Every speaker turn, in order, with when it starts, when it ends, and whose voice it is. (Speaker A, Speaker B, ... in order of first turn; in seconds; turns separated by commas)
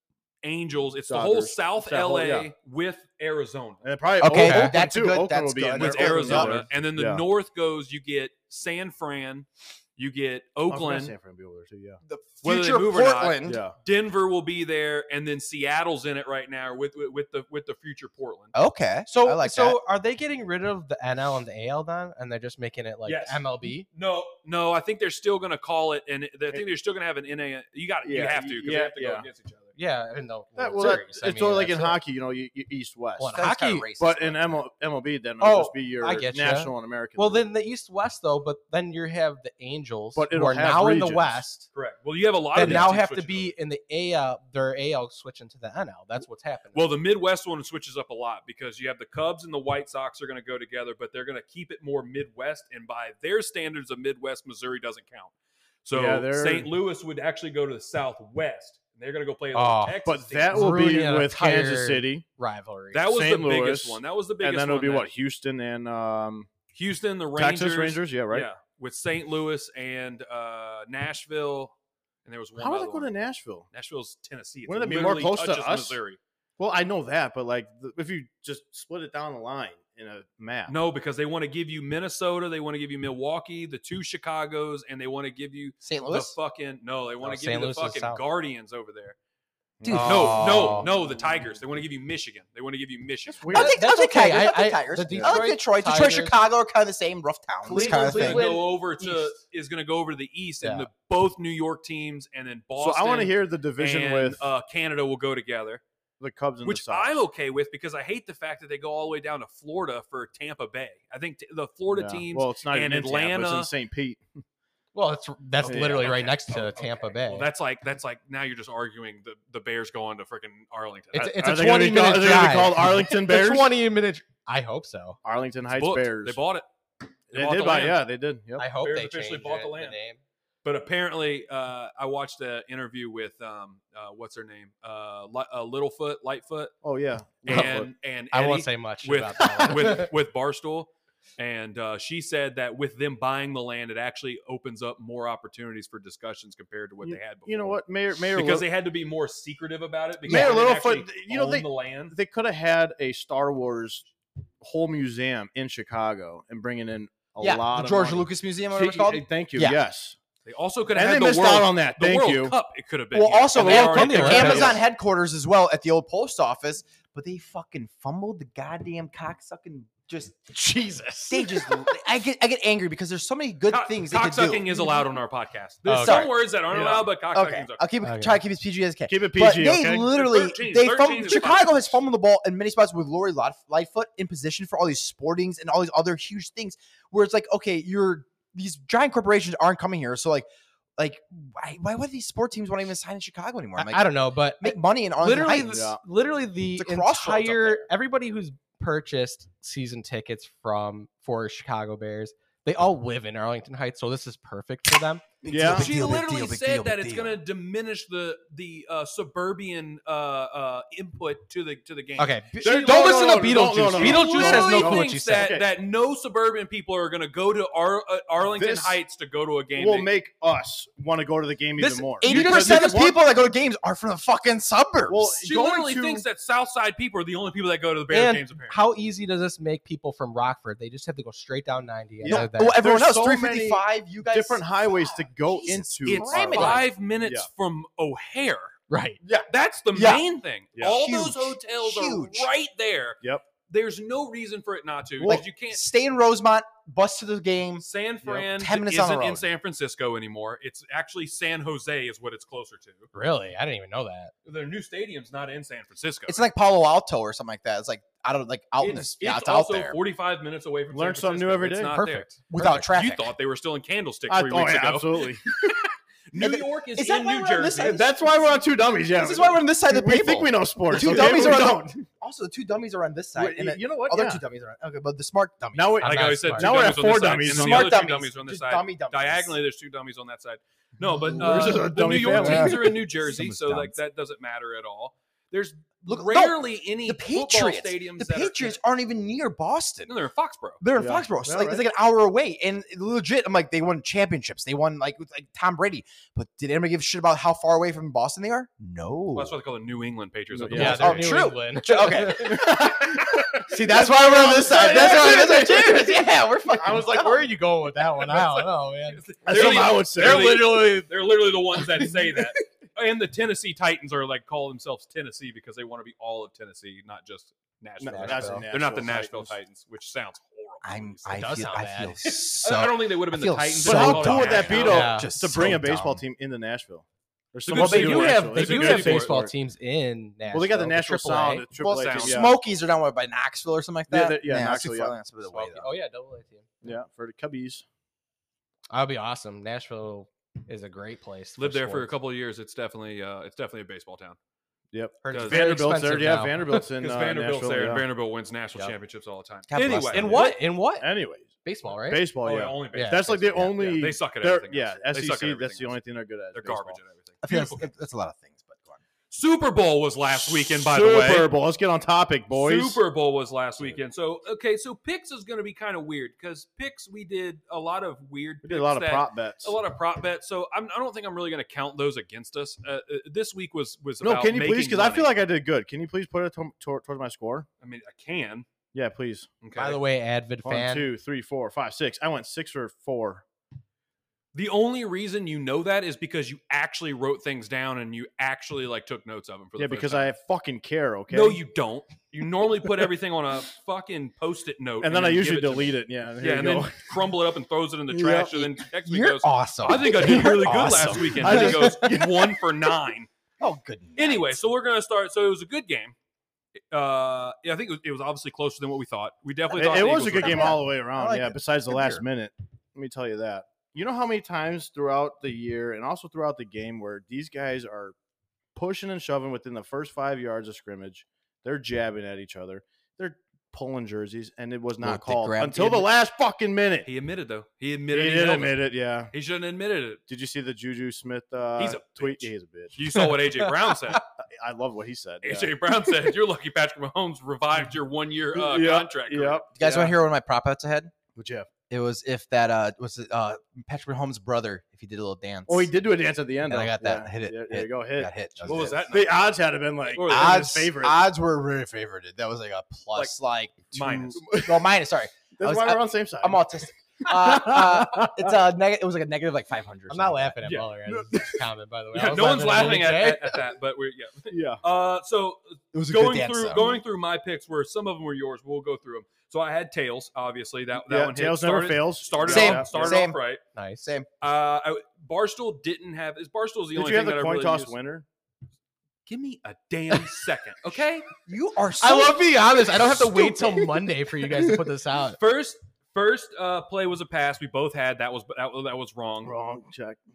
Speaker A: 0.4-3.8, Speaker B: 1.1-2.5, Speaker B: 3.8-7.2, Speaker C: 4.2-6.6, Speaker D: 4.2-4.7, Speaker A: 5.7-11.1, Speaker B: 10.7-12.0, Speaker C: 12.0-13.6, Speaker A: 12.4-18.5, Speaker B: 13.4-13.7, Speaker C: 18.5-19.8, Speaker D: 19.1-23.9, Speaker A: 23.0-29.7, Speaker B: 28.0-29.3, Speaker D: 29.8-32.0, Speaker B: 30.6-33.3, Speaker D: 33.2-33.9, Speaker C: 33.3-34.6, Speaker B: 34.0-37.5, Speaker D: 35.4-41.7, Speaker B: 40.1-41.4, Speaker A: 41.7-43.5, Speaker D: 42.5-47.0, Speaker B: 42.6-42.9, Speaker A: 46.7-55.3, Speaker A: 55.8-61.0, Speaker B: 55.9-56.7, Speaker D: 59.5-60.0, Speaker B: 60.0-62.2, Speaker D: 60.5-63.0, Speaker A: 62.9-65.1, Speaker B: 63.1-66.5, Speaker A: 66.7-73.1, Speaker B: 67.3-68.5, Speaker B: 72.5-73.7, Speaker A: 73.7-76.2, Speaker B: 74.7-76.0, Speaker B: 76.6-80.7, Speaker A: 80.7-89.2, Speaker C: 85.8-86.3, Speaker D: 87.2-88.2, Speaker B: 89.8-91.1, Speaker C: 89.8-90.6, Speaker D: 89.9-90.9, Speaker A: 90.0-93.5, Speaker B: 93.4-93.8, Speaker C: 93.5-98.5, Speaker D: 93.5-96.4, Speaker D: 97.6-99.4, Speaker A: 97.7-105.8, Speaker D: 100.6-100.9, Speaker B: 102.8-104.5, Speaker B: 106.2-107.2, Speaker A: 106.6-113.7, Speaker B: 111.9-114.2, Speaker D: 114.9-117.5, Speaker B: 115.6-116.3, Speaker A: 115.6-121.4, Speaker D: 121.1-125.2, Speaker B: 121.1-123.7, Speaker B: 125.2-126.4, Speaker A: 125.7-126.7, Speaker A: 127.3-128.1, Speaker B: 127.3-128.7, Speaker D: 128.6-130.2, Speaker A: 128.8-130.0, Speaker A: 130.6-136.8, Speaker B: 136.8-137.9, Speaker A: 137.4-152.2, Speaker D: 138.3-140.1, Speaker B: 139.4-139.7, Speaker B: 147.0-148.6, Speaker C: 150.3-150.6, Speaker B: 150.3-154.1, Speaker B: 154.6-160.2, Speaker C: 157.4-159.8, Speaker A: 160.4-164.8, Speaker B: 160.9-162.6, Speaker C: 163.1-170.6, Speaker D: 163.5-164.8, Speaker B: 164.2-164.8, Speaker D: 170.5-171.7, Speaker C: 171.2-175.0, Speaker A: 173.7-177.8, Speaker D: 175.9-176.3, Speaker C: 176.0-176.3, Speaker B: 176.7-177.1, Speaker C: 177.3-190.4, Speaker D: 178.0-178.4, Speaker B: 179.1-180.1, Speaker A: 179.9-182.0, Speaker C: 191.0-194.1, Speaker D: 193.8-205.2, Speaker C: 194.6-195.8, Speaker B: 195.5-196.0, Speaker C: 196.7-197.9, Speaker C: 205.4-207.4, Speaker B: 205.5-205.9, Speaker A: 205.6-213.3, Speaker D: 212.2-215.6, Speaker B: 212.6-215.7, Speaker A: 213.9-220.1, Speaker B: 218.4-219.0, Speaker B: 219.8-223.2, Speaker C: 221.8-225.4, Speaker D: 222.3-222.9, Speaker B: 225.1-226.2, Speaker A: 225.4-228.8, Speaker D: 228.1-232.8, Speaker B: 232.2-237.5, Speaker C: 232.2-236.8, Speaker A: 236.0-238.8, Speaker D: 238.9-239.2, Speaker C: 239.2-240.2, Speaker A: 239.5-245.8, Speaker C: 240.8-242.5, Speaker C: 245.2-247.8, Speaker A: 247.8-253.1, Speaker C: 248.5-249.5, Speaker D: 253.1-254.3, Speaker A: 254.4-256.5, Speaker C: 256.3-260.0, Speaker A: 258.8-262.3, Speaker B: 260.9-262.0, Speaker D: 261.9-262.9, Speaker C: 262.5-263.3, Speaker A: 262.9-268.0, Speaker B: 264.3-265.7, Speaker C: 266.4-268.3, Speaker B: 267.8-271.9, Speaker C: 269.1-276.0, Speaker B: 273.4-274.4, Speaker B: 275.7-278.0, Speaker D: 276.0-277.0, Speaker A: 276.0-288.8, Speaker C: 277.2-279.6, Speaker B: 281.3-283.1, Speaker C: 282.3-283.9, Speaker D: 282.4-282.7, Speaker C: 286.1-290.2, Speaker A: 290.1-290.8, Speaker C: 290.8-299.6, Speaker B: 290.9-291.8, Speaker A: 299.3-301.4, Speaker B: 300.5-301.4, Speaker D: 300.7-302.7, Speaker C: 300.8-307.5, Speaker B: 302.3-306.2, Speaker D: 304.7-311.1, Speaker A: 309.1-321.6, Speaker B: 309.4-310.8, Speaker B: 318.0-319.6, Speaker D: 318.0-318.7, Speaker C: 320.8-326.2, Speaker D: 321.3-322.2, Speaker A: 322.2-325.2, Speaker B: 323.8-329.5, Speaker D: 324.8-325.3, Speaker A: 327.6-329.3, Speaker D: 327.7-331.6, Speaker B: 330.5-332.5, Speaker A: 331.8-332.5, Speaker C: 331.8-335.9, Speaker B: 334.1-335.1, Speaker D: 335.5-336.7, Speaker B: 336.8-337.8, Speaker D: 338.9-342.1, Speaker A: 341.6-344.4, Speaker B: 344.9-348.0, Speaker D: 345.2-346.8, Speaker A: 345.3-345.6, Speaker A: 346.8-350.6, Speaker C: 349.7-350.5, Speaker D: 349.8-351.1, Speaker B: 351.0-357.0, Speaker D: 351.6-352.3, Speaker A: 352.4-356.0, Speaker D: 352.9-353.3, Speaker A: 356.5-357.9, Speaker C: 357.4-359.0, Speaker A: 359.3-361.5, Speaker B: 360.4-363.0, Speaker A: 362.5-375.4, Speaker B: 368.6-369.7, Speaker B: 374.2-377.7, Speaker A: 377.8-378.6, Speaker B: 378.9-379.5, Speaker A: 379.6-380.0, Speaker D: 379.7-381.1, Speaker B: 380.6-383.4, Speaker A: 384.5-390.3, Speaker B: 389.8-391.6, Speaker A: 391.3-403.3, Speaker B: 395.0-397.1, Speaker B: 398.1-398.6, Speaker C: 398.9-402.1, Speaker B: 401.4-402.6, Speaker C: 403.6-404.6, Speaker A: 404.2-406.1, Speaker A: 406.9-410.8, Speaker B: 409.7-418.1, Speaker C: 410.0-412.2, Speaker B: 418.7-427.1, Speaker C: 425.0-426.1, Speaker A: 427.0-430.2, Speaker B: 428.1-429.3, Speaker B: 430.3-433.0, Speaker A: 431.8-434.2, Speaker B: 434.4-435.7, Speaker A: 435.4-439.6, Speaker B: 438.5-440.2, Speaker C: 439.7-441.1, Speaker B: 441.3-441.7, Speaker C: 441.9-445.9, Speaker B: 445.7-451.2, Speaker C: 446.6-449.0, Speaker A: 448.6-449.6, Speaker A: 450.1-450.7, Speaker C: 450.2-460.6, Speaker A: 453.9-454.5, Speaker B: 454.4-454.9, Speaker B: 455.6-456.6, Speaker B: 457.2-458.5, Speaker D: 460.1-463.6, Speaker A: 460.6-461.0, Speaker B: 461.1-461.5, Speaker A: 462.1-473.6, Speaker B: 464.5-464.8, Speaker C: 465.9-466.9, Speaker B: 471.0-473.2, Speaker C: 472.4-473.4, Speaker D: 473.7-474.0, Speaker C: 474.0-474.3, Speaker A: 474.4-477.9, Speaker B: 476.9-478.2, Speaker A: 479.3-481.2, Speaker C: 481.4-482.5, Speaker D: 482.0-485.4, Speaker A: 485.4-489.5, Speaker B: 489.4-490.2